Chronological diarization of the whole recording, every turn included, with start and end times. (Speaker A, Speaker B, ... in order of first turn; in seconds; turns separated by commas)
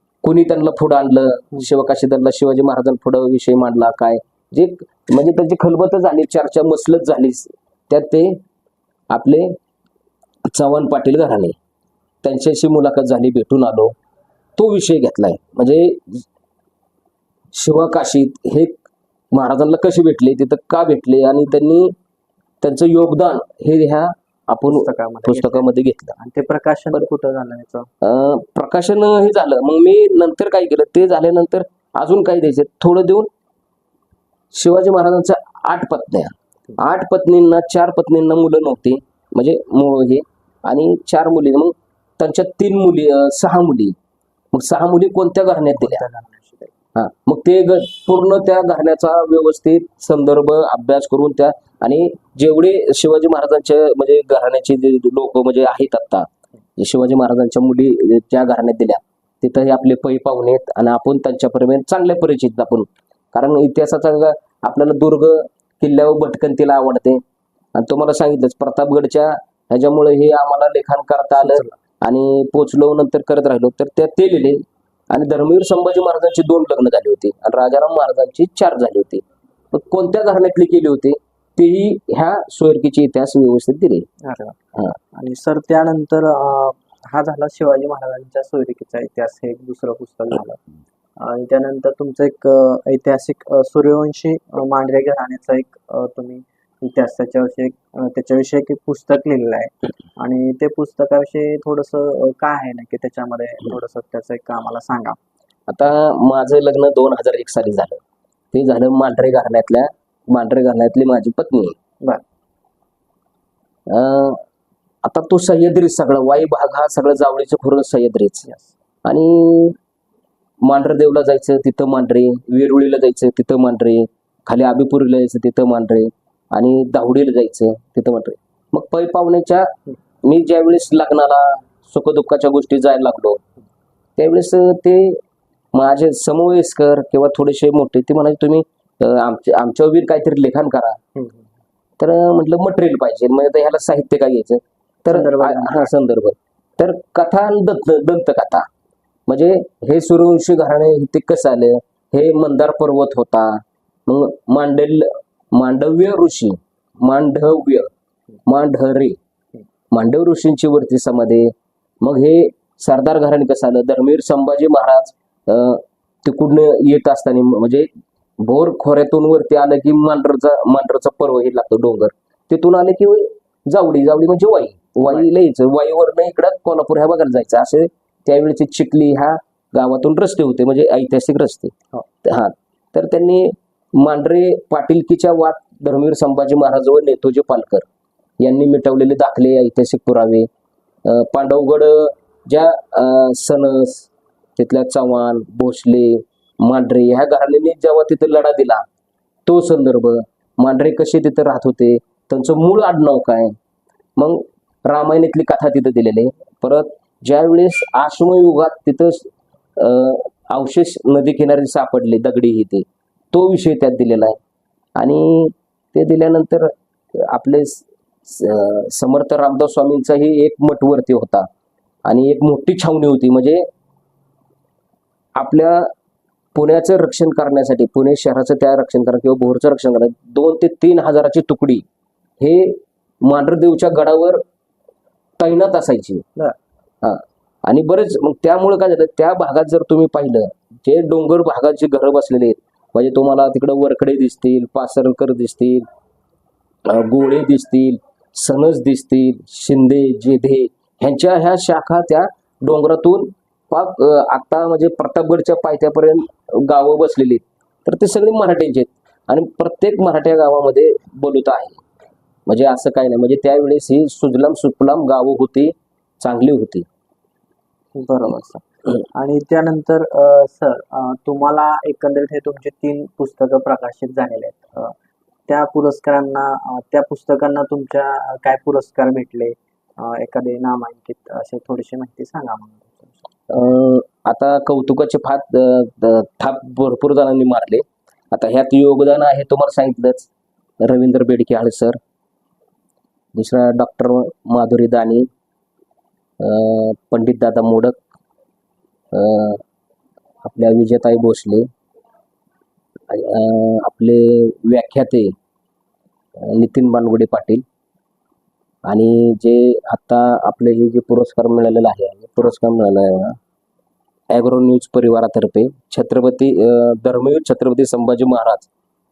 Speaker A: 0.2-8.4, Speaker A: 9.1-9.6, Speaker A: 10.4-11.6, Speaker A: 12.2-13.9, Speaker A: 14.6-16.3, Speaker A: 17.5-21.9, Speaker A: 22.6-26.1, Speaker B: 24.7-27.9, Speaker A: 28.0-33.3, Speaker A: 34.5-44.0, Speaker A: 44.5-46.0, Speaker B: 45.8-46.7, Speaker A: 46.9-67.2, Speaker A: 67.7-84.1, Speaker B: 84.2-84.5, Speaker B: 85.1-90.6, Speaker B: 91.2-105.2, Speaker A: 105.7-108.0, Speaker A: 108.5-111.8, Speaker A: 113.9-114.4, Speaker A: 115.0-118.5, Speaker A: 119.0-119.8, Speaker A: 120.6-133.4, Speaker A: 134.2-135.2, Speaker A: 135.7-141.0, Speaker B: 141.1-141.4, Speaker A: 142.0-148.7, Speaker B: 145.1-145.9, Speaker A: 149.3-157.9, Speaker A: 158.4-159.2, Speaker A: 159.9-187.8, Speaker A: 188.4-190.5, Speaker A: 191.0-198.8, Speaker A: 199.4-203.6, Speaker A: 204.2-214.4, Speaker A: 214.9-221.5, Speaker A: 222.1-223.6, Speaker A: 225.3-225.9, Speaker A: 226.5-231.8, Speaker A: 232.4-234.4, Speaker A: 235.4-236.2, Speaker A: 237.0-245.8, Speaker A: 246.8-261.8, Speaker A: 262.4-266.9, Speaker B: 267.9-274.9, Speaker B: 275.5-283.2, Speaker A: 283.5-292.0, Speaker A: 293.3-295.3, Speaker A: 296.4-298.0, Speaker A: 299.1-299.6, Speaker A: 300.4-301.7, Speaker A: 303.1-305.3, Speaker A: 306.4-307.6, Speaker A: 308.8-313.4, Speaker A: 314.3-318.7